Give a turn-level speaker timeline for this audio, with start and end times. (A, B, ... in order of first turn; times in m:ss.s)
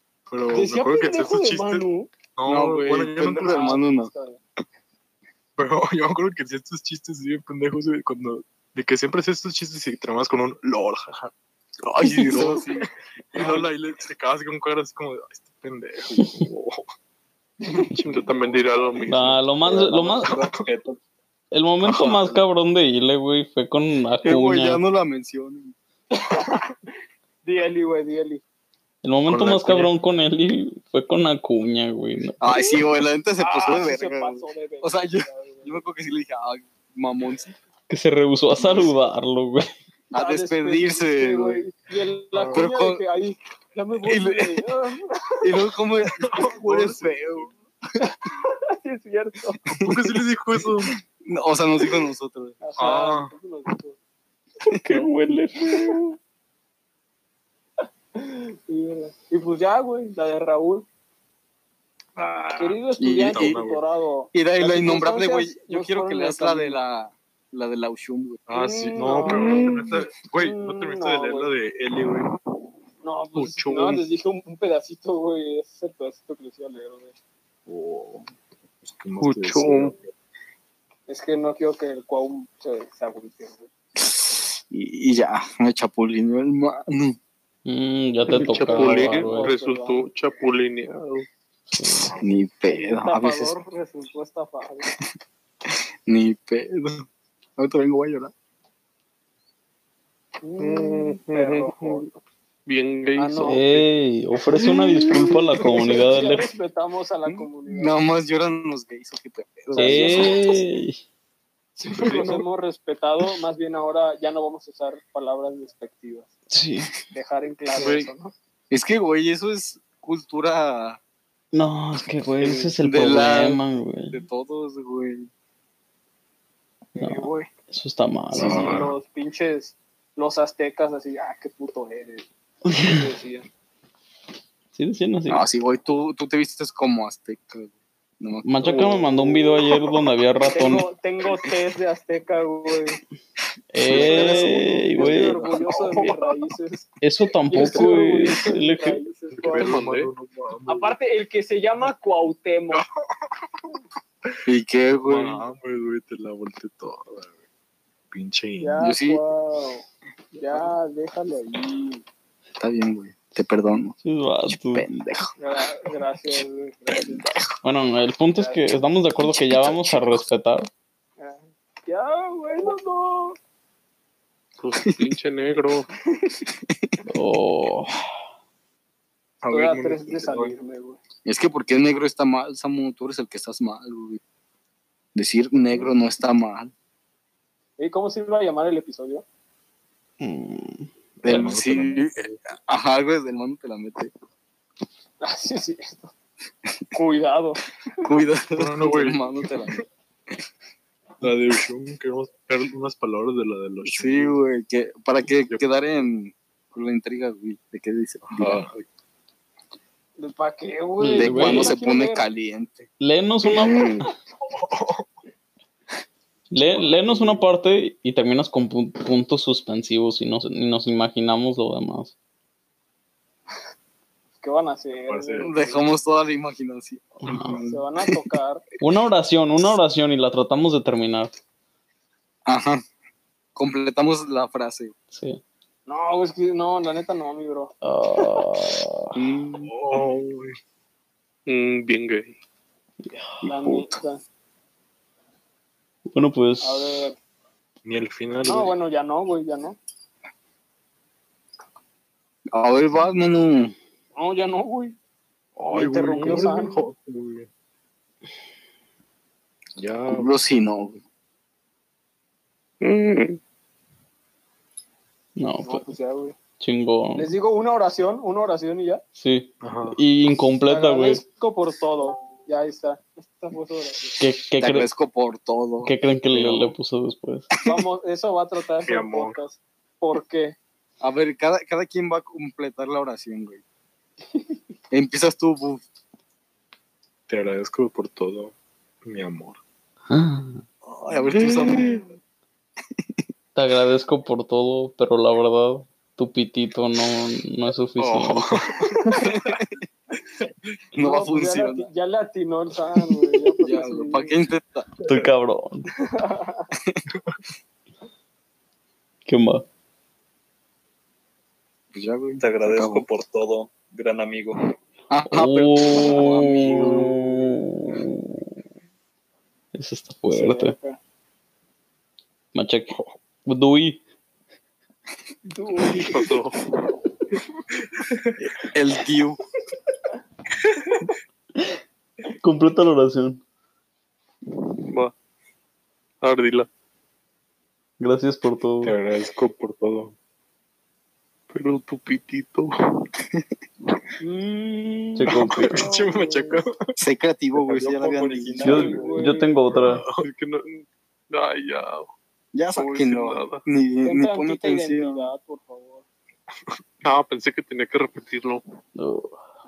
0:00.3-0:01.8 A
0:00.5-0:02.1 B
0:02.4-0:03.8 A
0:02.4-0:04.1 C
0:03.4-0:04.4 B
0:05.6-0:11.3 A
0:11.8-0:12.9 C
0:12.0-0:12.6 A
0:13.3-0:16.8 A
0:17.9-0:18.6 A
0:18.1-0:19.4 D
0:19.1-0:20.4 E
0:19.6-0:21.0 F
0:21.5-0:24.8 E
0:21.8-0:22.3 A
0:24.2-0:25.7 C
0:26.1-0:26.8 B
0:27.4-0:28.4 B
0:29.0-0:32.4 E
0:29.3-0:29.9 A
0:32.4-0:37.5 C
0:33.4-0:35.8 B
0:37.9-0:39.7 E
0:40.1-0:41.6 C
0:40.1-0:45.6 B
0:42.3-0:42.6 A
0:42.5-0:43.0 C
0:44.0-0:44.7 C
0:45.4-0:47.5 C
0:46.2-0:47.5 A
0:48.0-0:49.6 B
0:49.7-0:50.9 A
0:49.8-0:52.6 C
0:52.6-0:54.0 B
0:52.8-0:53.3 A
0:54.6-0:55.0 C
0:54.8-0:55.9 E
0:55.7-0:55.9 B
0:58.2-1:00.8 B
1:02.2-1:03.8 A
1:02.6-1:06.8 B
1:03.0-1:03.6 C
1:04.3-1:08.4 C
1:08.5-1:12.3 A
1:08.5-1:09.7 B
1:09.2-1:09.9 D
1:10.3-1:11.5 B
1:13.0-1:17.1 B
1:13.4-1:14.0 A
1:17.7-1:18.2 A
1:18.8-1:20.0 A
1:19.2-1:19.9 D
1:21.1-1:23.7 B
1:24.0-1:27.2 C
1:27.6-1:29.5 E
1:28.3-1:31.2 D
1:28.5-1:30.0 B
1:31.7-1:32.1 E
1:32.2-1:33.6 C
1:32.7-1:34.9 B
1:35.7-1:37.0 C
1:37.6-1:38.3 C
1:40.4-1:42.1 B
1:40.6-1:42.0 D
1:42.7-1:43.8 D
1:43.2-1:43.6 B
1:43.4-1:46.5 E
1:45.9-1:48.0 B
1:47.2-1:50.6 C
1:49.7-1:50.6 B
1:49.7-1:51.0 E
1:51.8-1:56.3 B
1:52.0-1:52.4 D
1:56.5-1:56.9 E
1:57.1-1:58.3 B
1:57.7-1:58.1 D
1:58.7-2:01.0 C
2:01.5-2:04.2 E
2:02.4-2:05.3 C
2:07.0-2:07.5 B
2:07.0-2:08.8 E
2:08.3-2:08.8 C
2:08.4-2:12.2 B
2:08.4-2:08.9 A
2:12.7-2:13.0 E
2:12.8-2:13.5 B
2:14.7-2:15.4 E
2:15.3-2:19.6 C
2:18.4-2:20.8 E
2:20.5-2:23.0 B
2:23.7-2:25.5 E
2:23.8-2:26.1 C
2:23.9-2:26.9 B
2:27.0-2:29.0 E
2:27.5-2:29.8 B
2:29.4-2:30.9 A
2:29.5-2:30.1 D
2:30.7-2:32.8 B
2:34.4-2:35.4 C
2:35.0-2:37.3 A
2:38.1-2:38.8 A
2:38.6-2:42.0 B
2:38.8-2:39.2 C
2:42.6-2:44.0 C
2:44.0-2:44.8 E
2:44.5-2:45.3 C
2:45.4-2:47.2 B
2:46.9-2:47.4 C
2:47.6-2:50.7 E
2:48.3-2:48.7 B
2:49.2-2:50.3 C
2:51.2-2:53.4 B
2:54.6-2:55.9 D
2:56.7-2:57.0 C
2:57.1-2:58.0 E
2:59.4-3:00.5 A
2:59.5-3:01.0 B
3:01.2-3:04.2 C
3:05.1-3:06.7 C
3:07.8-3:09.2 B
3:10.2-3:11.5 E
3:11.2-3:14.1 C
3:11.2-3:12.4 A
3:15.2-3:16.1 B
3:16.9-3:17.6 B
3:18.0-3:19.8 C
3:18.6-3:19.2 A
3:21.2-3:24.4 A
3:23.8-3:28.6 C
3:28.2-3:28.8 A
3:30.2-3:32.2 B
3:31.0-3:31.7 E
3:31.1-3:32.9 C
3:33.0-3:34.1 E
3:33.6-3:34.0 C
3:34.5-3:35.0 A
3:36.5-3:42.1 E
3:36.6-3:37.4 A
3:44.4-3:45.8 B
3:45.1-3:45.5 A
3:45.4-3:48.1 C
3:47.2-3:47.6 E
3:47.6-3:48.6 B
3:48.8-3:51.3 E
3:52.4-3:52.8 C
3:53.6-3:54.9 C
3:55.1-3:55.4 E
3:55.9-3:57.7 B
3:57.8-3:59.1 E
3:59.1-3:59.7 C
3:59.7-4:00.6 A
4:01.5-4:02.3 D
4:03.4-4:04.2 B
4:03.6-4:03.9 C
4:06.1-4:07.0 E
4:06.6-4:07.2 B
4:07.8-4:08.7 A
4:08.4-4:09.8 B
4:12.5-4:13.7 C
4:14.2-4:15.0 B
4:15.6-4:17.5 A
4:15.7-4:16.8 B
4:19.8-4:20.3 A
4:20.1-4:21.0 C
4:22.8-4:23.4 D
4:25.4-4:25.8 E
4:25.6-4:26.3 B
4:26.6-4:27.3 E
4:27.1-4:29.0 B
4:29.2-4:31.2 E
4:29.6-4:30.0 A
4:30.7-4:34.2 B
4:34.2-4:34.9 E
4:34.6-4:35.9 C
4:35.8-4:37.5 E
4:36.3-4:36.7 A
4:37.6-4:40.6 B
4:38.8-4:39.4 A
4:41.0-4:43.6 C
4:44.9-4:45.8 C
4:47.3-4:48.5 A
4:49.0-4:49.6 A
4:50.1-4:50.6 E
4:50.9-4:52.0 C
4:53.5-4:58.6 E
4:58.0-4:59.0 A
4:59.1-4:59.8 C
5:00.9-5:01.9 C
5:01.0-5:04.3 B
5:03.6-5:04.9 C
5:05.0-5:05.8 E
5:06.0-5:06.7 B
5:06.7-5:07.0 C
5:09.2-5:09.6 E
5:11.9-5:13.0 C
5:12.4-5:14.6 F
5:15.1-5:17.5 C
5:15.3-5:18.5 E
5:19.7-5:20.7 E
5:20.3-5:21.0 B
5:22.5-5:24.0 E
5:25.5-5:26.3 B
5:26.1-5:26.6 D
5:28.4-5:29.4 C
5:32.4-5:33.4 E
5:34.9-5:35.1 D
5:36.2-5:36.7 D
5:38.0-5:38.9 E
5:38.8-5:40.1 A
5:41.5-5:42.7 D
5:44.2-5:46.6 B
5:45.2-5:45.8 E
5:45.5-5:46.7 A
5:47.0-5:48.9 C
5:47.6-5:49.2 F
5:48.6-5:49.5 B
5:48.6-5:50.0 E
5:49.7-5:50.2 A
5:50.1-5:52.1 D
5:52.5-5:55.3 C
5:52.7-5:53.6 D
5:54.0-5:56.0 B
5:57.0-5:58.6 D
5:59.0-5:59.4 E